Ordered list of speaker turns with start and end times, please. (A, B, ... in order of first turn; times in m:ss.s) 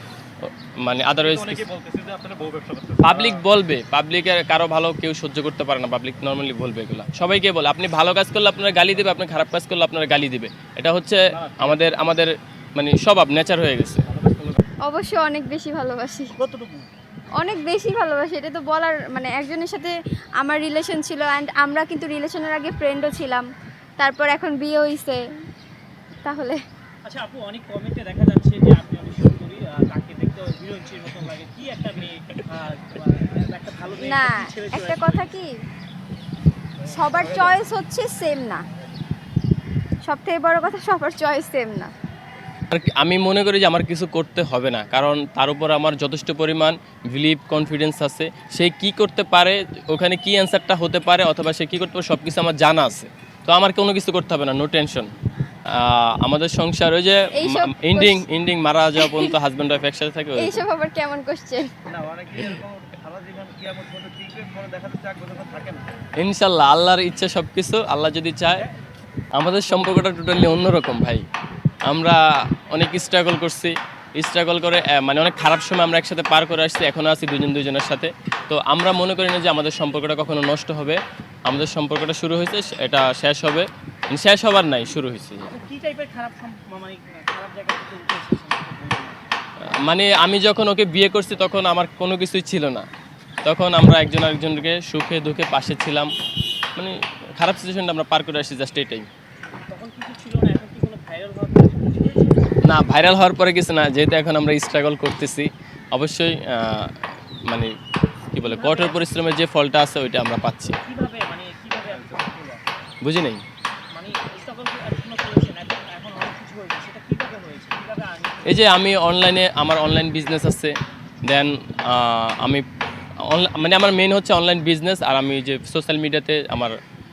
0:00.4-0:01.6 A
0:01.2-0:03.4 B
0:03.0-0:14.0 A
0:11.3-0:11.9 B
0:14.1-0:14.6 B
0:14.8-0:16.3 C
0:16.4-0:16.9 D
0:17.4-0:23.4 C
0:24.0-0:25.2 C
0:26.2-0:26.6 C
0:27.0-0:35.4 D
0:34.0-0:35.5 C
0:36.8-0:38.6 C
0:40.0-0:41.9 C
0:42.7-0:55.1 A
0:55.7-1:00.6 A
0:57.3-0:58.2 C
0:59.0-0:59.3 C
1:00.4-1:01.7 C
1:01.9-1:05.8 B
1:06.2-1:08.6 A
1:09.3-1:11.2 A
1:11.8-1:12.2 A
1:12.7-1:25.5 A
1:25.5-1:29.2 D
1:29.6-1:32.9 A
1:33.4-1:36.1 A
1:36.7-1:39.1 A
1:39.6-1:42.4 D
1:42.6-1:46.9 A
1:47.4-1:47.7 A
1:48.3-1:50.8 A
1:48.4-1:49.0 D
1:50.8-1:52.6 D
1:53.0-1:53.4 A
1:53.9-1:58.6 D
1:58.4-2:00.7 A
2:01.2-2:02.6 A
2:03.2-2:06.7 A